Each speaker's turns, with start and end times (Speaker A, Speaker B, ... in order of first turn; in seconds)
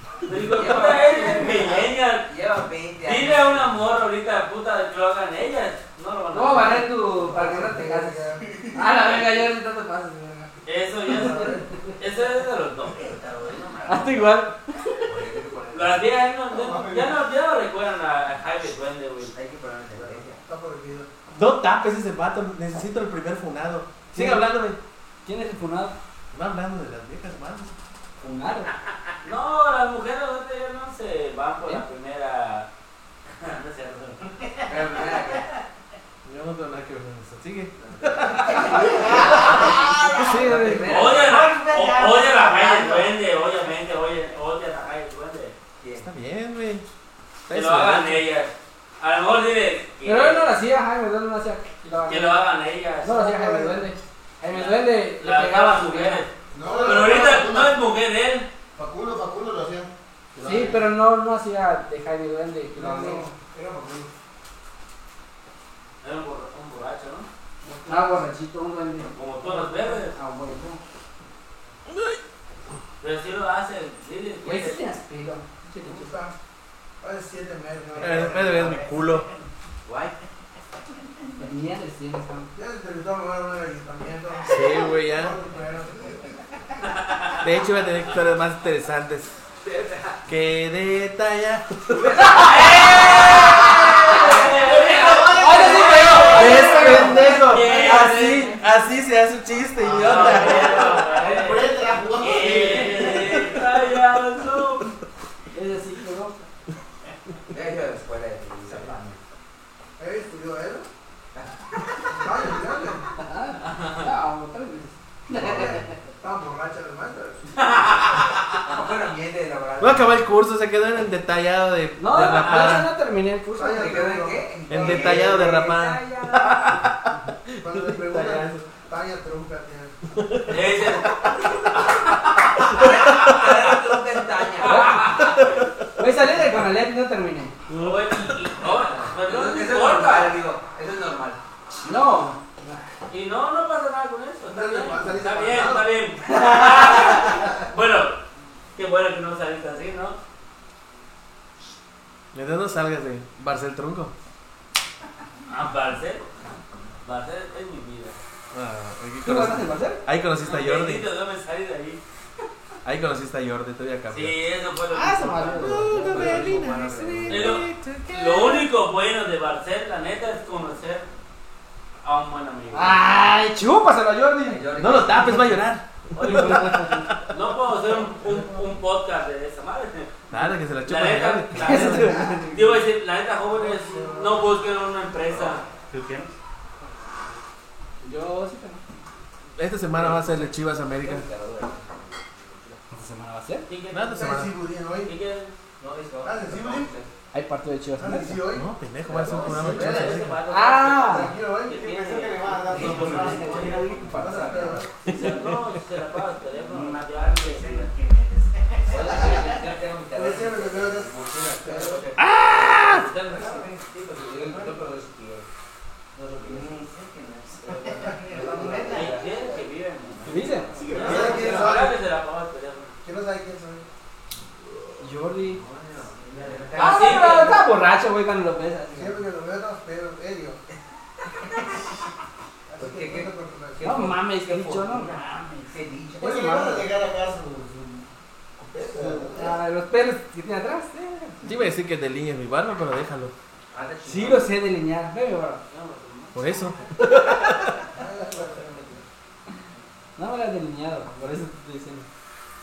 Speaker A: 0.2-2.3, 3.0-6.9, 10.7-14.4, 15.7-19.3, 29.2-32.7, 33.4-34.7, 40.8-45.6, 47.5-50.5, 52.1-53.2, 54.5-58.5, 66.0-67.3, 69.1-70.2, 73.0-74.8, 92.3-98.6, 99.9-104.9, 113.7-114.1, 117.6-118.3, 122.2-122.7, 130.5-131.7, 134.6-135.5, 137.7-140.4, 143.1-148.2, 148.8-150.2, 155.5-156.2, 157.0-158.2, 160.4-162.0, 164.1-166.2, 167.3-171.1, 172.0-173.0, 176.2-176.7, 177.3-180.2, 180.8-185.6, 193.7-194.4, 195.0-195.5, 199.4-203.9, 205.0-207.9, 212.8-213.7, 218.9-223.0, 226.5-227.6, 245.7-246.4
Speaker B: 0.3-3.8, 15.1-16.1, 19.2-20.4, 34.6-35.5, 37.8-41.6, 45.8-46.1, 79.9-80.2, 89.6-90.2, 91.9-93.2, 94.1-94.6, 97.0-97.8, 100.1-100.7, 107.5-109.2, 118.7-120.1, 123.7-126.6, 132.6-135.2, 138.6-141.4, 166.1-166.7, 174.4-175.6, 189.9-192.8, 195.8-197.1, 199.1-200.0, 202.7-204.8, 206.6-207.9, 208.8-215.4, 216.2-219.6, 220.5-221.8, 225.5-227.6, 232.8-236.9, 243.7-244.5
Speaker C: 0.7-1.4, 6.3-10.5, 11.1-11.7, 13.9-14.8, 24.1-24.5, 25.2-25.9, 28.2-28.7, 40.4-40.8, 50.0-52.4, 53.0-56.2, 60.4-63.3, 67.9-70.8, 74.4-76.2, 81.4-82.5, 95.3-98.5, 105.5-106.4, 113.2-115.9, 122.0-124.0, 134.6-135.3, 136.0-137.6, 141.8-142.8, 146.3-147.3, 159.2-160.0, 164.9-167.5, 172.7-174.7, 176.2-177.1, 181.6-182.7, 188.0-188.8, 192.9-193.7, 197.3-198.4, 200.5-201.3, 203.1-204.8, 220.2-220.7, 225.0-225.6, 226.8-229.2, 233.8-235.4, 239.3-241.4, 244.1-245.6, 250.2-252.1
Speaker D: 7.1-8.7, 11.1-11.7, 19.9-21.1, 53.1-53.9, 56.6-57.5, 62.7-64.1, 67.6-68.3, 75.8-76.3, 77.0-78.8, 82.5-86.3, 110.0-110.9, 112.1-113.1, 115.3-117.5, 123.6-125.5, 127.6-129.9, 144.4-146.0, 178.1-178.8, 183.4-184.6, 194.1-195.2, 196.2-196.9, 198.0-200.4, 201.0-201.9, 204.1-205.0, 210.1-212.0, 218.0-218.4, 220.9-222.0, 223.0-223.8, 228.9-230.6, 232.7-234.1, 247.9-249.0
Speaker E: 16.5-17.2, 56.5-57.8, 58.8-60.8, 94.1-96.8, 99.8-103.5, 201.7-204.0, 220.8-221.6, 236.2-238.1, 238.6-239.6
Speaker F: 21.3-24.8, 26.3-27.7, 36.2-41.4, 46.0-46.9, 47.5-48.2, 78.0-79.3, 84.5-85.4, 87.4-89.4, 90.3-92.3, 96.3-101.0, 119.8-122.9, 124.7-126.9, 127.7-128.6, 130.2-130.6, 135.1-135.8, 137.7-138.2, 152.3-154.1, 158.5-161.1, 162.8-164.4, 165.6-168.7, 174.8-177.4, 180.3-182.3, 185.9-186.3, 189.6-191.3, 193.9-194.5, 198.5-200.4, 205.1-205.6, 212.3-213.0, 241.4-243.3, 246.3-247.8